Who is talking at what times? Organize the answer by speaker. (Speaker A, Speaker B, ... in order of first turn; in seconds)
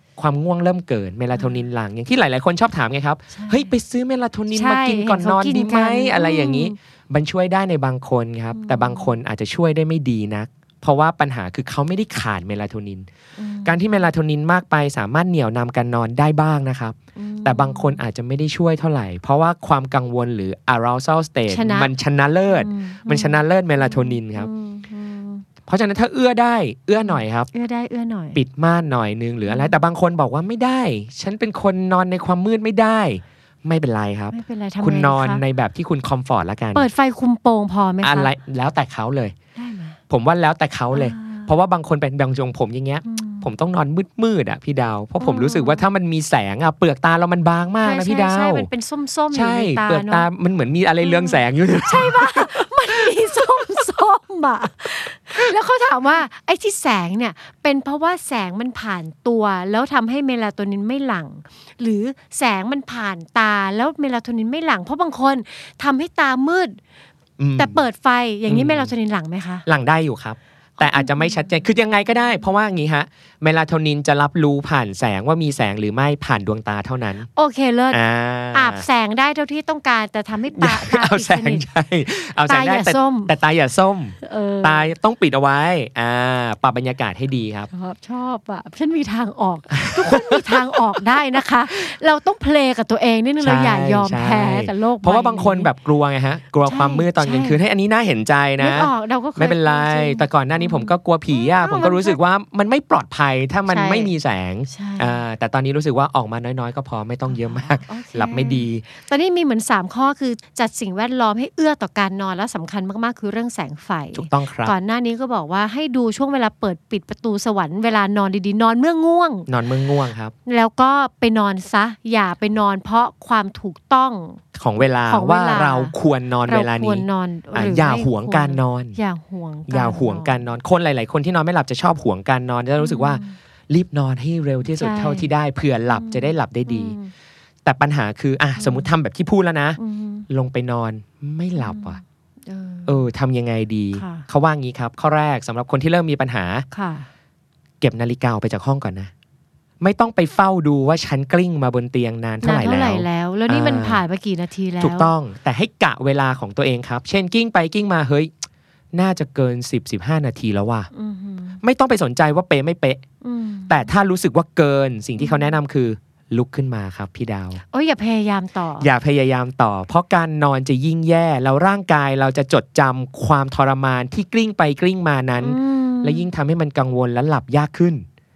Speaker A: 0.2-13.1, 13.6-24.5, 25.7-27.5, 28.3-36.9, 38.0-39.3, 40.1-48.7, 49.3-53.8, 67.4-67.8, 68.5-68.9, 69.7-77.3, 77.9-78.8, 80.6-87.7, 89.7-90.8, 93.4-108.8, 114.2-114.7, 119.5-120.3, 124.5-129.0, 129.7-137.0, 137.6-142.0, 142.8-146.7, 147.8-149.1, 149.8-154.0, 154.8-158.3, 158.9-160.9, 161.6-163.0, 163.7-167.6, 168.8-178.1
Speaker B: 1.3-1.6, 3.3-3.7, 4.5-6.8, 8.5-9.1, 13.4-14.1, 17.1-18.0, 21.5-21.9, 22.4-25.4, 27.0-28.4, 29.4-29.8, 34.3-35.4, 36.7-38.3, 39.5-40.0, 40.9-41.5, 43.0-43.5, 45.2-45.8, 47.8-50.2, 51.0-66.8, 67.6-69.6, 70.8-71.5, 77.3-78.0, 78.5-81.6, 82.5-83.3, 84.2-84.9, 87.7-95.7, 96.7-97.6, 98.6-102.2, 103.7-104.1, 104.7-105.2, 107.3-119.5, 120.5-124.4, 125.1-130.4, 132.8-133.4, 134.6-135.3, 135.9-137.1, 138.6-138.9, 139.8-140.2, 141.6-143.1, 143.9-144.3, 146.7-147.1, 152.4-155.1, 160.9-161.6, 163.2-163.9, 165.2-165.6, 167.7-168.9, 175.4-176.3